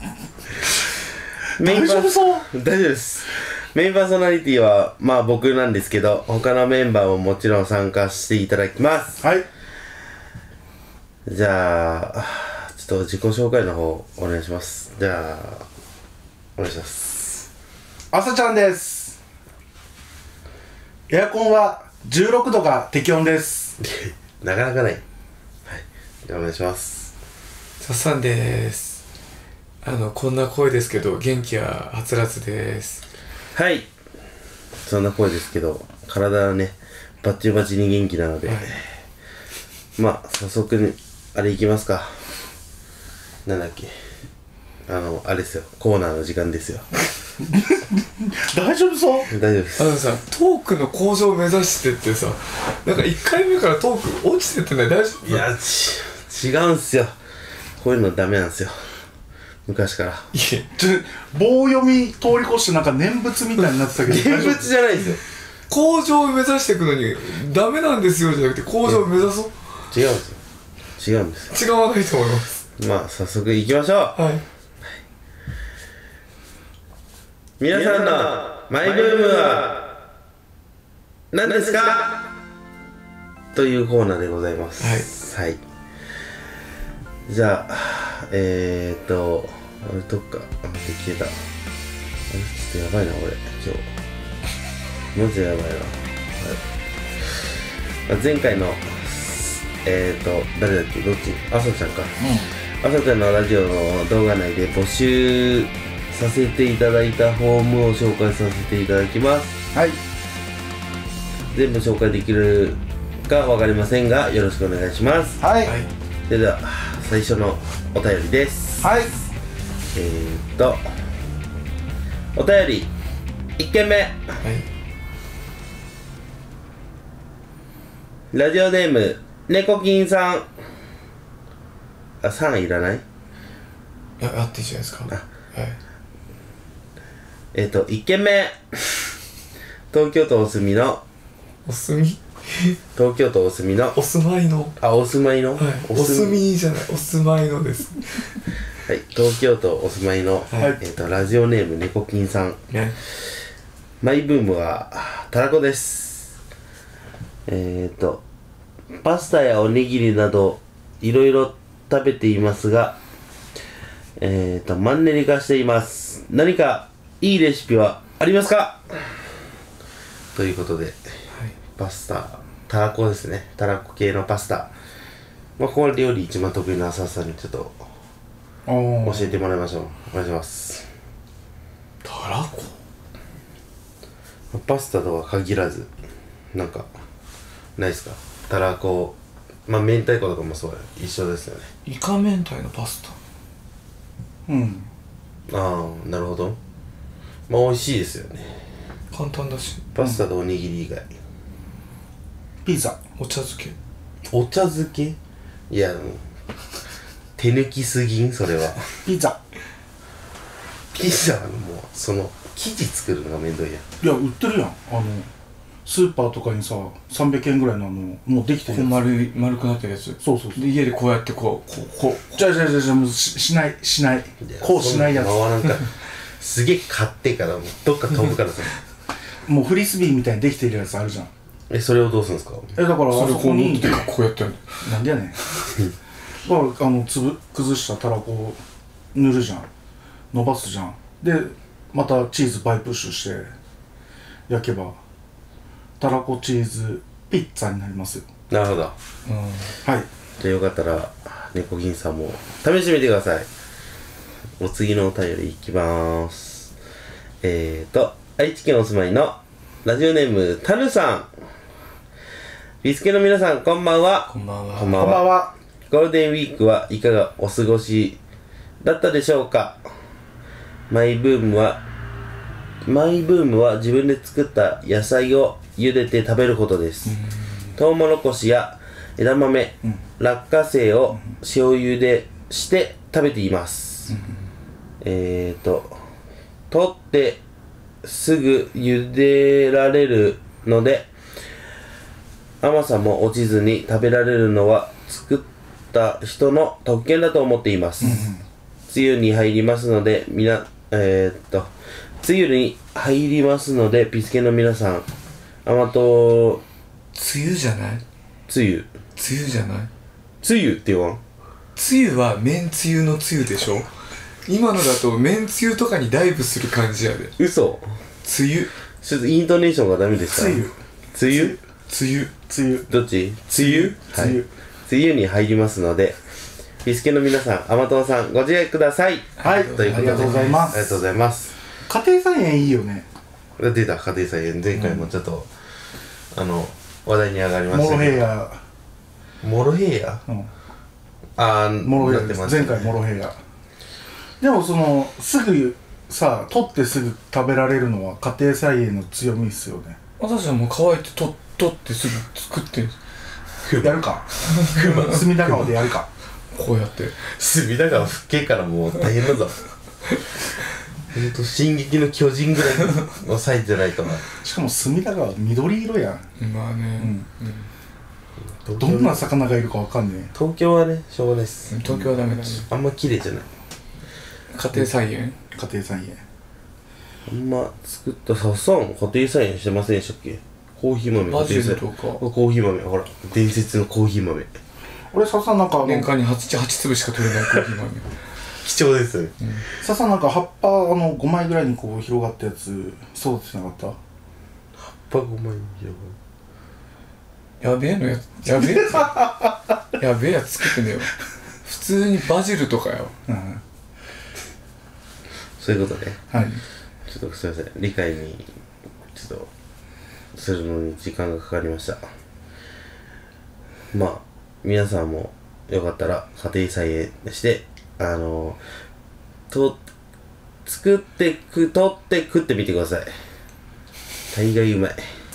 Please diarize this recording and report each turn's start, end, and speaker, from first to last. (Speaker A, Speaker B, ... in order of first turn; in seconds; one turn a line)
Speaker A: 1.6-9.2
Speaker B: 1.6-2.4
Speaker B: 9.2-9.5
Speaker A: 11.3-15.7
Speaker A: 16.6-17.5
Speaker B: 18.1-19.2
Speaker B: 21.1-23.8
Speaker A: 23.8-25.0
Speaker A: 25.7-27.1
Speaker C: 27.8-29.0
Speaker C: 29.8-33.0
Speaker A: 33.5-33.9
Speaker A: 34.8-38.8
Speaker C: 38.5-38.7
Speaker A: 40.0-42.2
Speaker A: 43.5-43.9
Speaker A: 44.9-46.9
Speaker B: 47.5-49.3
Speaker A: 49.3-49.9
Speaker C: 49.8-55.5
Speaker A: 55.2-57.1
Speaker A: 57.8-58.8
Speaker A: 59.7-60.3
Speaker C: 60.3-60.7
Speaker B: 60.8-64.7
Speaker A: 64.1-65.2
Speaker C: 65.7-69.5
Speaker A: 69.9-70.4
Speaker A: 71.0-71.6
Speaker C: 71.5-72.6
Speaker A: 72.8-74.2
Speaker C: 74.2-74.4
Speaker A: 77.6-79.9
Speaker A: 81.3-82.2
Speaker A: 83.5-85.6
Speaker C: 84.8-85.1
Speaker A: 87.3-91.3
Speaker A: 92.3-93.9
Speaker A: 95.2-96.6
Speaker A: 98.1-102.2
Speaker B: 102.2-102.5
Speaker A: 102.8-109.6
Speaker B: 109.7-110.0
Speaker A: 111.5-115.4
Speaker B: 115.4-115.8
Speaker C: 115.7-115.9
Speaker A: 116.3-118.9
Speaker B: 118.8-119.2
Speaker A: 119.9-120.8
Speaker A: 122.3-122.9
Speaker A: 123.6-124.2
Speaker C: 124.4-124.7
Speaker A: 128.3-130.5
Speaker A: 132.2-133.0
Speaker C: 134.2-135.8
Speaker A: 137.5-138.9
Speaker A: 139.9-141.0
Speaker C: 141.7-142.8
Speaker A: 143.0-144.0
Speaker C: 143.9-144.8
Speaker A: 144.8-146.4
Speaker C: 145.6-148.4
Speaker A: 148.9-152.6
Speaker C: 152.7-153.0
Speaker A: 154.0-156.3
Speaker A: 157.5-158.2
Speaker A: 159.0-163.0
Speaker A: 164.2-169.1
Speaker A: 170.3-171.0
Speaker A: 171.8-174.7
Speaker A: 175.6-177.8
Speaker B: 178.7-179.3
Speaker A: 179.0-180.9
Speaker C: 182.0-182.8
Speaker A: 184.5-185.9
Speaker A: 186.5-186.9
Speaker A: 187.8-189.2
Speaker A: 189.7-191.7
Speaker C: 191.9-193.2
Speaker B: 194.5-194.9
Speaker A: 195.5-196.6
Speaker A: 197.5-198.6
Speaker C: 199.1-199.8
Speaker A: 199.9-201.1
Speaker B: 202.7-203.0
Speaker C: 203.2-203.8
Speaker A: 204.3-205.2
Speaker A: 205.7-206.2
Speaker A: 207.4-208.8
Speaker B: 209.0-209.4
Speaker A: 210.9-213.8
Speaker B: 214.0-215.3
Speaker B: 215.9-219.0
Speaker C: 218.7-222.5
Speaker B: 220.2-220.6
Speaker B: 222.3-225.4
Speaker A: 224.4-228.8
Speaker B: 229.5-231.3
Speaker A: 231.7-232.8
Speaker B: 232.8-234.1
Speaker C: 233.1-234.9
Speaker B: 234.8-235.4
Speaker B: 236.4-238.6
Speaker B: 239.1-239.7
Speaker B: 240.3-243.5
Speaker B: 244.5-245.0
Speaker B: 246.0-248.2
Speaker A: 248.5-248.9
Speaker C: 249.3-249.7
Speaker A: 250.4-253.5
Speaker A: 254.6-256.7
Speaker A: 257.4-261.3
Speaker A: 262.8-265.3
Speaker C: 264.3-265.1
Speaker B: 264.9-265.5
Speaker A: 265.9-268.2
Speaker A: 268.8-269.8
Speaker A: 270.9-271.8
Speaker A: 272.9-277.1
Speaker A: 277.7-284.2
Speaker A: 285.0-286.0
Speaker A: 286.7-287.4
Speaker A: 288.0-291.1
Speaker A: 292.6-298.3
Speaker B: 298.0-298.4
Speaker A: 298.9-305.1
Speaker A: 305.6-306.6
Speaker C: 307.1-308.0
Speaker A: 308.5-308.9
Speaker C: 309.2-309.9
Speaker A: 310.4-311.2
Speaker C: 311.8-313.9
Speaker C: 314.5-317.3
Speaker A: 317.4-317.9
Speaker C: 318.2-318.7
Speaker A: 319.0-321.6
Speaker B: 320.3-320.8
Speaker B: 321.3-321.6
Speaker C: 321.9-322.3
Speaker B: 322.5-322.9
Speaker A: 322.9-326.2
Speaker B: 323.6-324.5
Speaker A: 326.8-331.6
Speaker C: 329.4-330.7
Speaker B: 329.4-330.9
Speaker B: 331.9-333.1
Speaker A: 333.6-335.5
Speaker A: 336.3-338.3
Speaker B: 337.7-338.6
Speaker A: 339.4-340.2
Speaker A: 341.4-343.0
Speaker B: 341.8-343.4
Speaker B: 344.4-350.0
Speaker C: 350.2-352.9
Speaker A: 353.6-354.0
Speaker B: 353.8-354.3
Speaker C: 354.5-355.1
Speaker A: 354.6-355.8
Speaker B: 355.0-356.1
Speaker C: 356.5-357.3
Speaker A: 357.3-359.6
Speaker A: 361.1-364.2
Speaker B: 364.4-366.3
Speaker C: 366.4-367.7
Speaker B: 367.0-367.2
Speaker A: 368.6-369.3
Speaker B: 368.8-370.3
Speaker A: 370.4-373.5
Speaker C: 371.7-372.7
Speaker C: 374.5-375.4
Speaker B: 375.5-376.2
Speaker A: 377.3-384.5
Speaker C: 381.3-382.2
Speaker B: 385.1-386.1
Speaker C: 385.8-388.1
Speaker A: 388.6-389.4
Speaker B: 389.8-394.0
Speaker A: 395.1-396.2
Speaker C: 397.6-399.3
Speaker C: 399.9-403.1
Speaker B: 403.3-403.6
Speaker A: 405.6-406.2
Speaker B: 406.3-406.6
Speaker A: 407.1-408.5
Speaker A: 409.1-409.5
Speaker A: 410.4-412.0
Speaker A: 413.9-418.6
Speaker A: 419.5-419.8
Speaker A: 420.7-423.1
Speaker A: 424.3-425.0